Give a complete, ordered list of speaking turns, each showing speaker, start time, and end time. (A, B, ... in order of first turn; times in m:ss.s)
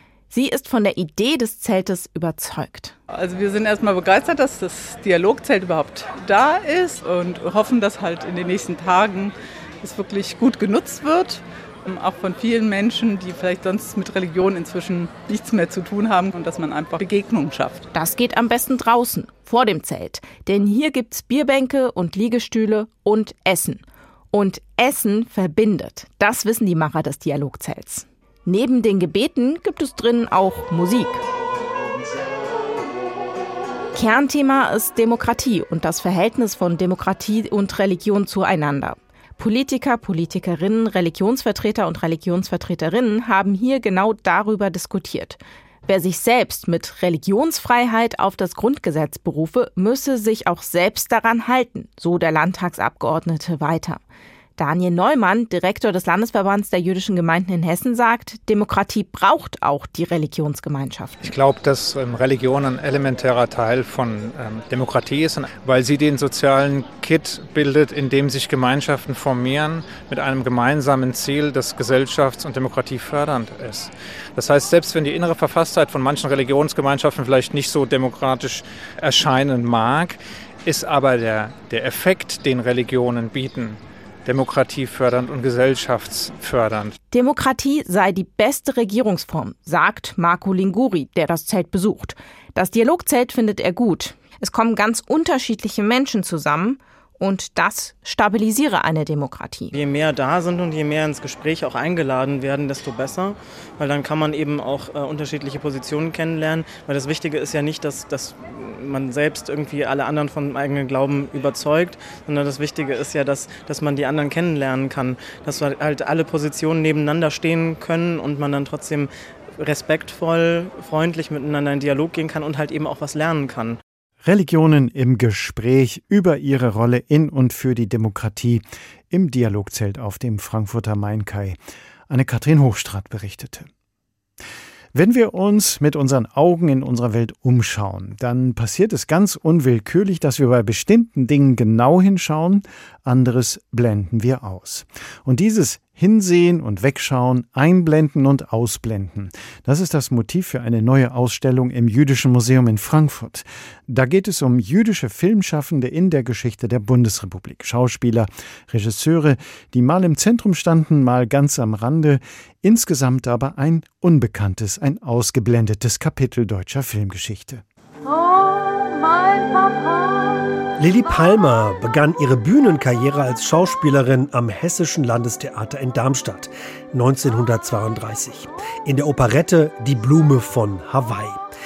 0:00.3-0:03.0 A
0:03.1-0:17.9 B
0:17.9-0:31.2 A
0:33.9-0:54.0 A
0:54.6-1:01.4 A
1:01.2-1:27.0 C
1:27.1-1:39.8 A
1:39.7-2:03.8 D
2:04.2-2:11.6 E
2:12.1-2:13.7 E
2:14.9-2:47.6 E
2:50.8-3:01.4 F